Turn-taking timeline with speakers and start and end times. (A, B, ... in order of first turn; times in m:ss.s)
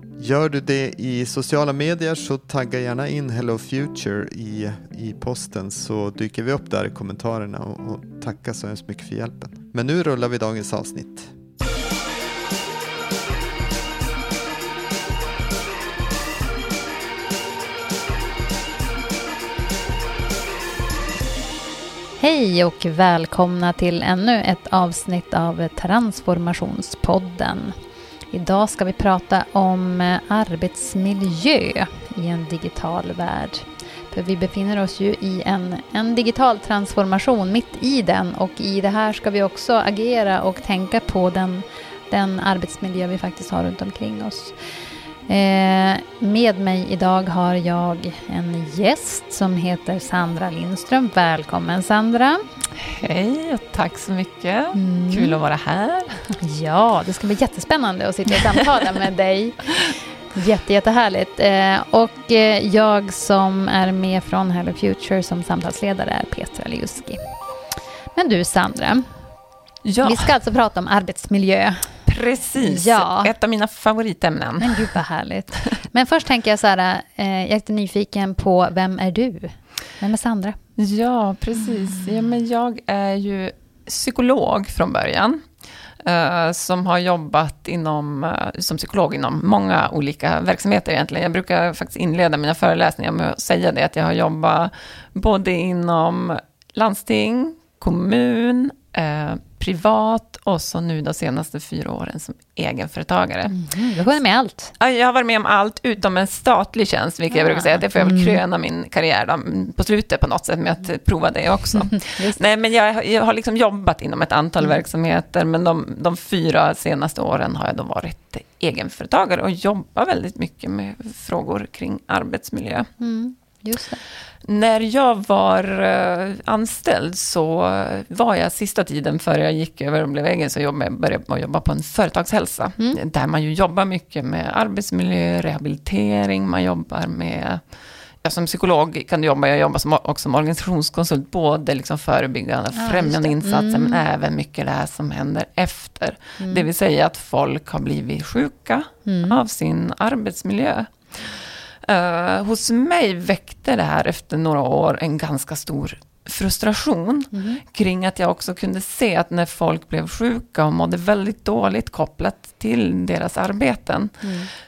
0:00.2-0:11.3 A
0:22.2-0:27.7 B
0:28.3-0:44.6 B
0:45.3-0:52.4 B
0:52.8-0:56.4 C
0:54.7-0:55.4 B
0:56.4-1:07.2 B
1:08.1-1:09.1 B
1:09.8-1:10.3 C
1:10.0-1:12.0 B
1:12.0-1:14.9 C
1:12.6-1:13.3 B
1:14.6-1:20.6 B
1:20.8-1:25.4 C
1:26.0-1:43.5 C
1:43.5-1:44.7 B
1:44.8-2:02.9 C
1:47.3-1:48.4 B
1:51.7-1:52.4 B
2:03.0-2:04.0 B
2:04.4-2:17.6 C
2:18.2-2:44.3 C
2:22.8-2:24.0 B
2:26.4-2:26.6 B
2:29.0-2:29.4 B
2:37.3-2:37.6 B
2:44.2-2:44.5 B